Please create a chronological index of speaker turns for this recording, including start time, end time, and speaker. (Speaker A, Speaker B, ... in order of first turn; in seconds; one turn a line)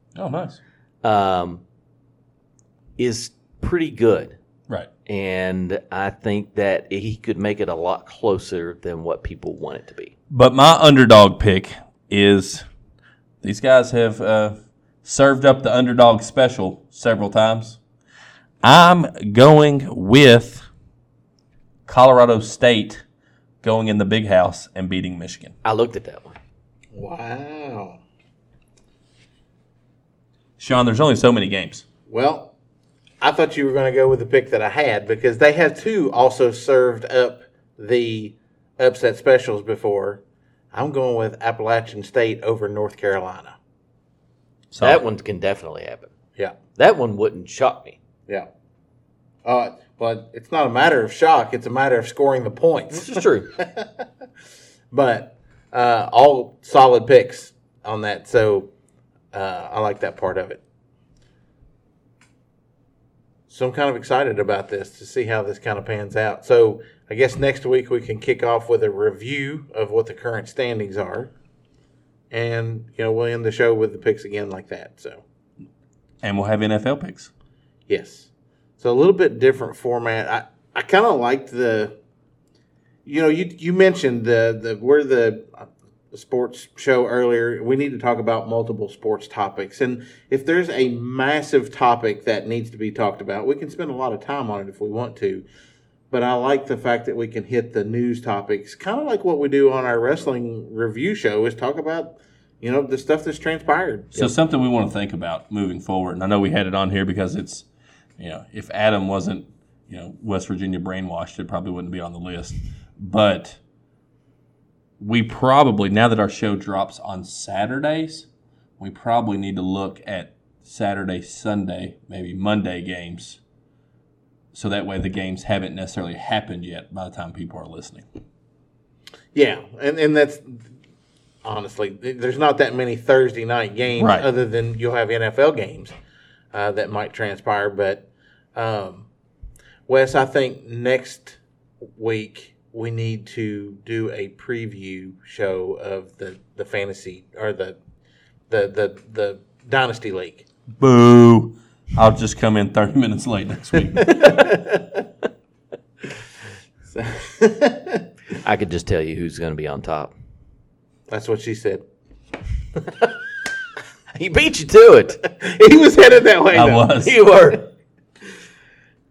Speaker A: 0.1-0.6
Speaker B: 1.0-1.6
Speaker B: 3.0-4.4
Speaker B: 5.1-10.1
Speaker A: 10.3-12.6
Speaker A: 13.4-17.8
Speaker A: 18.6-20.6
Speaker A: 21.9-23.0
Speaker A: 23.6-25.5
Speaker B: 25.6-26.4
Speaker C: 26.9-28.0
Speaker A: 30.6-31.8
Speaker C: 32.1-32.5
Speaker C: 33.2-40.2
Speaker C: 40.7-43.5
Speaker A: 44.7-45.0
Speaker B: 44.8-46.1
Speaker B: 46.8-48.0
Speaker C: 49.4-54.0
Speaker B: 52.9-53.5
Speaker C: 54.9-58.7
Speaker C: 59.3-60.6
Speaker C: 63.5-71.3
Speaker C: 72.3-75.2
Speaker A: 76.2-77.3
Speaker C: 77.9-82.0
Speaker C: 83.0-95.4
Speaker C: 96.1-104.3
Speaker A: 104.1-107.7
Speaker A: 108.2-113.6
Speaker A: 115.0-118.3
Speaker A: 118.8-123.4
Speaker A: 124.5-128.1
Speaker C: 129.3-130.7
Speaker C: 131.4-135.9
Speaker A: 134.0-134.3
Speaker C: 136.5-139.1
Speaker C: 139.9-141.4
Speaker C: 141.9-147.8
Speaker C: 148.5-150.4
Speaker A: 150.8-154.3
Speaker C: 154.0-154.9
Speaker B: 154.1-154.4
Speaker C: 156.9-158.0
Speaker B: 158.3-160.1
Speaker C: 161.1-161.8
Speaker B: 164.1-165.2
Speaker C: 165.2-166.9
Speaker A: 166.5-167.2
Speaker B: 167.0-167.7